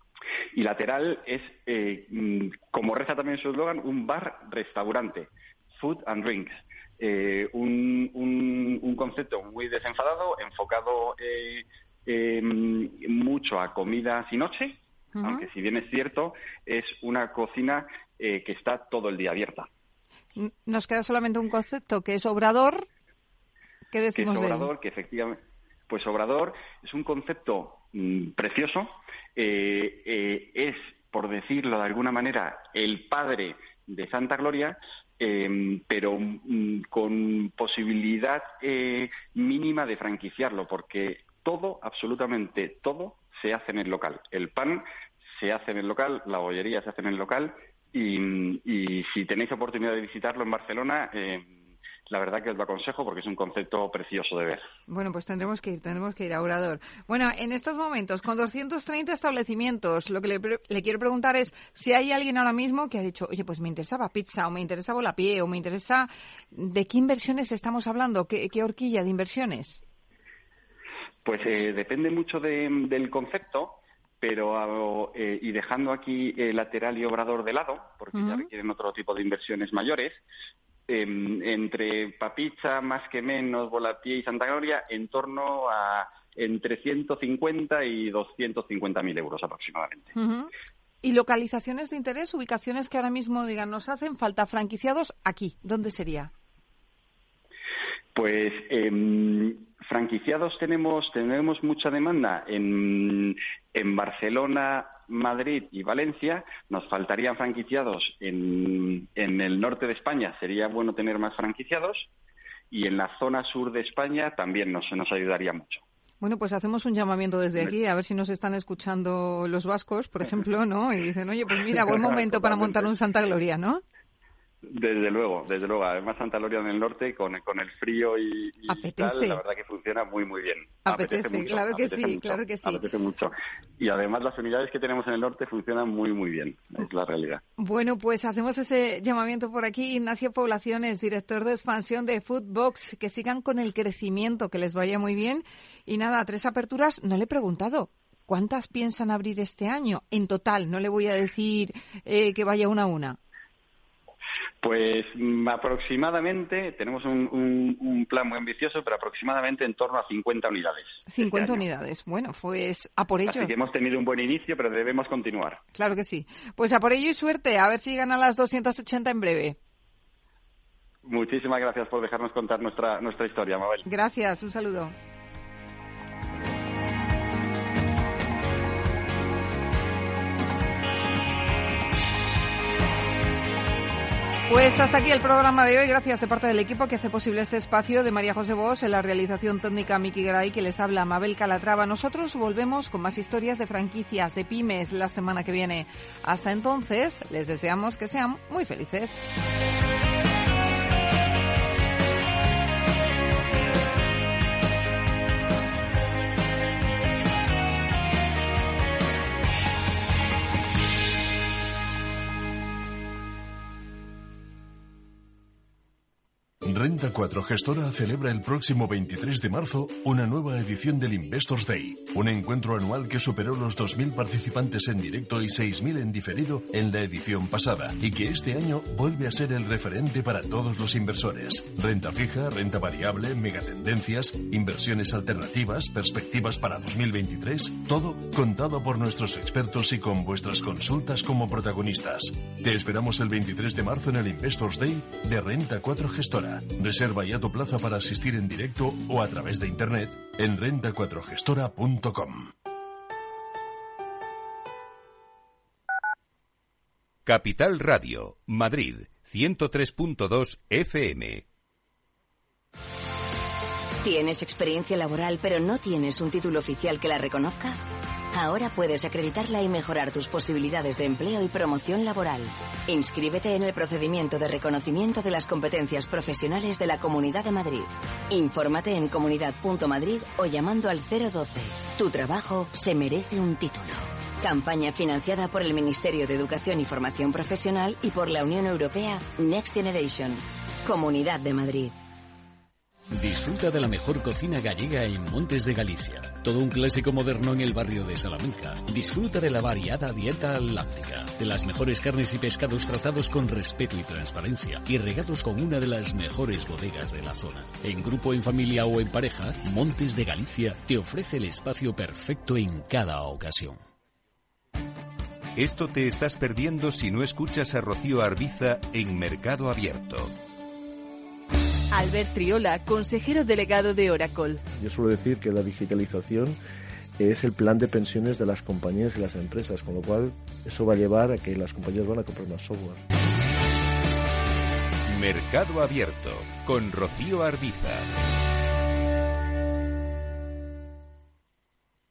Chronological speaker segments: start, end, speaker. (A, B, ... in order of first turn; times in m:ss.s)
0:00.5-0:19.7 A
0:15.2-0:15.5 B
0:20.4-0:22.9 B
0:23.9-0:24.7 B
0:24.2-0:51.5 A
0:52.1-0:54.6 A
0:54.9-1:09.8 B
1:11.2-1:20.2 A
1:18.1-1:18.5 B
1:20.9-1:30.1 A
1:30.1-1:30.5 B
1:31.0-1:36.3 B
1:38.1-1:52.1 A
1:52.7-1:55.8 A
1:56.2-2:03.8 B
2:01.9-2:02.9 A
2:04.6-2:17.4 A
2:08.7-2:09.4 B
2:10.8-2:12.8 B
2:17.6-2:33.2 B
2:34.6-2:41.6 A
2:41.1-2:43.5 B
2:43.2-2:45.6 A
2:45.7-2:49.6 B
2:51.0-2:53.8 A
2:53.8-2:54.9 B
3:04.5-3:19.2 B
3:36.6-4:12.5 C
4:17.2-4:21.4 D
4:24.0-4:51.9 E
4:53.1-5:13.8 F
5:15.6-5:20.3 D
5:21.9-5:24.6 G
5:24.7-5:26.6 H
5:27.2-5:33.0 H
5:35.1-5:38.1 D